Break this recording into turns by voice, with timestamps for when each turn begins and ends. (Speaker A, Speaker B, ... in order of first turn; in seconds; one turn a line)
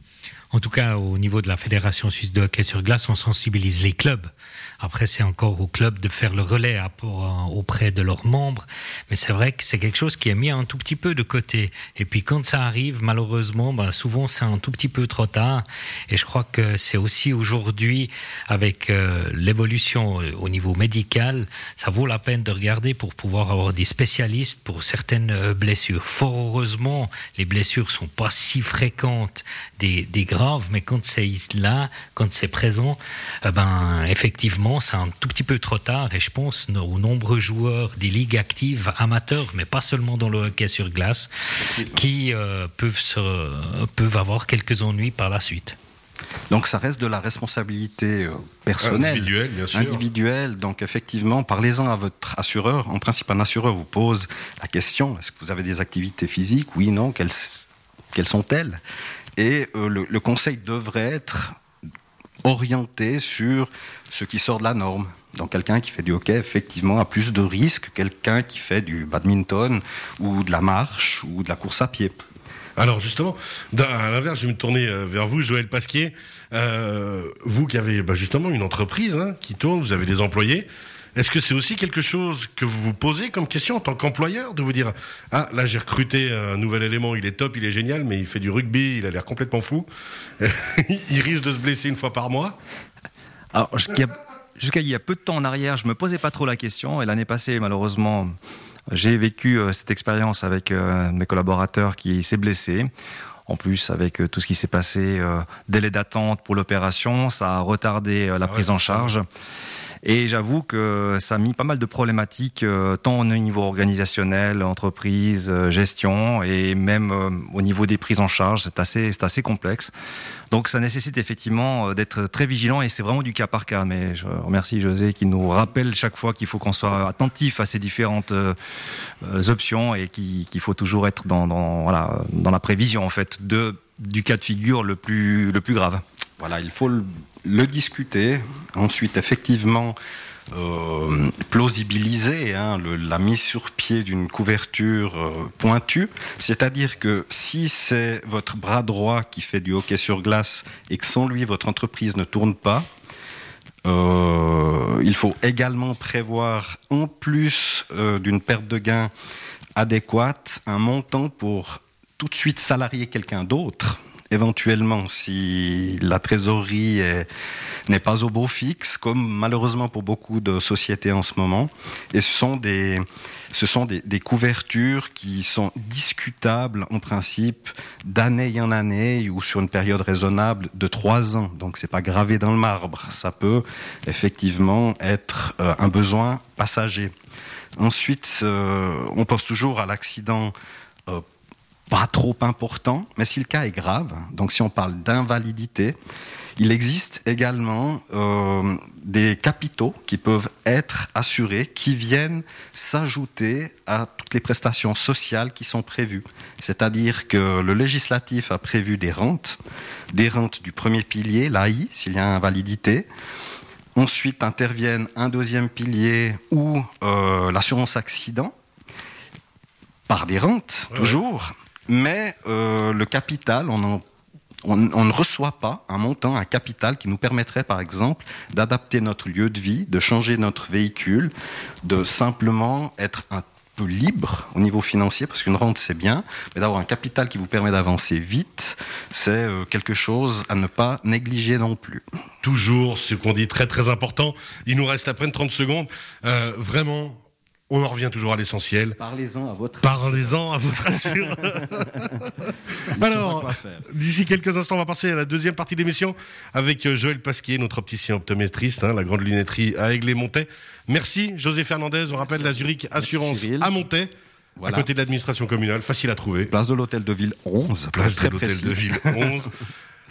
Speaker A: 0.5-45.8
Speaker B: 46.5-58.8
Speaker C: 48.8-50.0
Speaker B: 59.4-61.5
Speaker B: 62.4-72.1
Speaker C: 72.8-89.9
Speaker C: 90.4-92.6
Speaker D: 93.5-98.3
Speaker D: 98.9-102.9
Speaker D: 103.5-109.2
Speaker C: 108.5-109.1
Speaker D: 110.0-119.9
Speaker D: 120.5-128.6
Speaker D: 129.2-136.0
Speaker B: 136.4-140.0
Speaker B: 140.5-152.8
Speaker B: 153.9-159.1
Speaker B: 159.8-167.3
Speaker B: 167.9-187.1
Speaker B: 187.8-190.5
Speaker B: 191.9-196.0
Speaker B: 196.6-209.6
Speaker B: 210.1-213.1
Speaker B: 214.0-218.5
Speaker B: 220.1-224.0
Speaker B: 224.7-231.3
Speaker B: 231.8-242.0
Speaker C: 242.4-249.0
Speaker B: 249.0-250.9
Speaker C: 249.8-252.2
Speaker B: 252.9-253.9
Speaker C: 253.0-264.1
Speaker B: 262.2-263.7
Speaker B: 264.6-264.9
Speaker C: 264.6-266.5
Speaker B: 266.5-269.4
Speaker C: 267.9-269.5